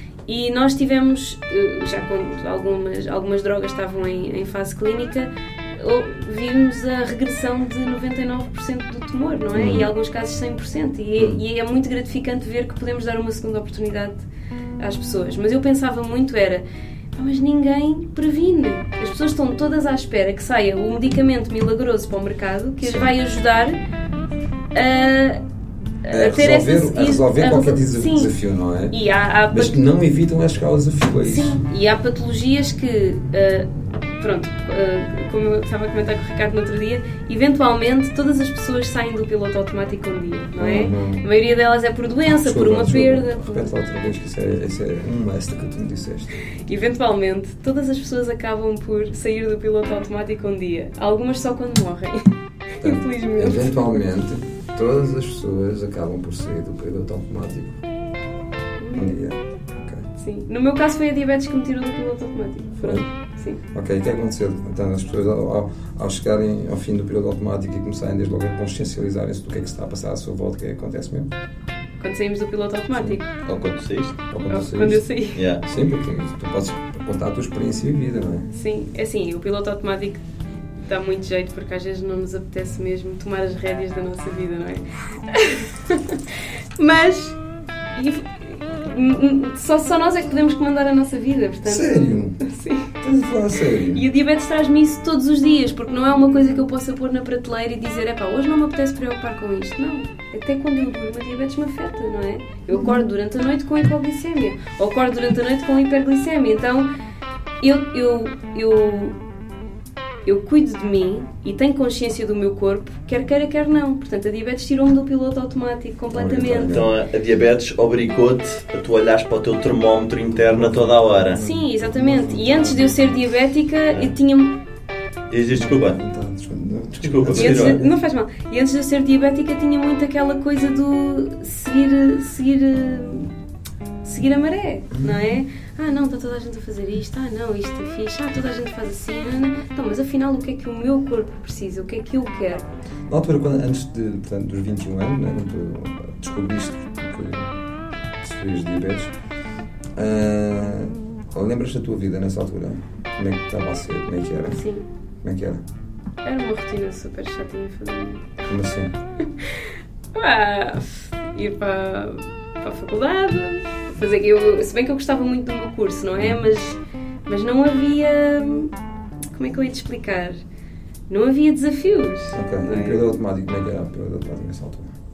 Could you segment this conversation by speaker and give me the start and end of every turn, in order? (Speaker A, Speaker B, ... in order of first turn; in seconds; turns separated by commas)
Speaker A: 0.3-14.2, Speaker B: 9.5-9.9, Speaker A: 14.8-16.6, Speaker A: 17.1-23.8, Speaker B: 22.8-23.1, Speaker A: 24.7-25.4, Speaker A: 26.1-28.3, Speaker B: 26.1-28.9, Speaker A: 28.9-29.8, Speaker B: 29.5-31.6, Speaker A: 31.2-43.7, Speaker B: 40.5-41.2, Speaker B: 42.4-46.4, Speaker A: 46.6-54.0, Speaker B: 52.8-57.8, Speaker A: 58.8-59.2, Speaker B: 58.9-60.1, Speaker A: 60.2-63.6, Speaker B: 62.8-63.1, Speaker B: 63.7-71.3, Speaker A: 72.0-73.3, Speaker B: 73.0-73.7, Speaker C: 73.5-74.1, Speaker B: 74.3-75.0, Speaker A: 74.5-75.4, Speaker C: 75.3-75.6, Speaker B: 75.6-78.5, Speaker A: 78.5-80.2, Speaker A: 80.8-87.4, Speaker A: 87.9-92.9, Speaker B: 91.6-92.4, Speaker B: 93.0-94.0, Speaker A: 93.9-106.9, Speaker B: 102.7-103.0, Speaker A: 107.6-109.2, Speaker A: 110.2-116.7, Speaker B: 116.1-116.9, Speaker C: 116.7-121.4, Speaker B: 120.4-123.2, Speaker A: 121.3-124.6, Speaker C: 125.3-126.0, Speaker B: 125.5-127.9, Speaker C: 127.0-127.8, Speaker A: 127.3-133.3, Speaker A: 134.0-142.7, Speaker B: 135.0-135.3, Speaker B: 143.1-147.6, Speaker B: 148.2-149.1, Speaker B: 149.9-154.6, Speaker A: 154.5-154.8, Speaker B: 155.2-155.6, Speaker A: 156.2-158.4, Speaker B: 158.5-158.9, Speaker A: 159.2-168.7, Speaker B: 166.2-166.4, Speaker A: 169.3-170.4, Speaker A: 171.1-173.2, Speaker B: 172.3-174.9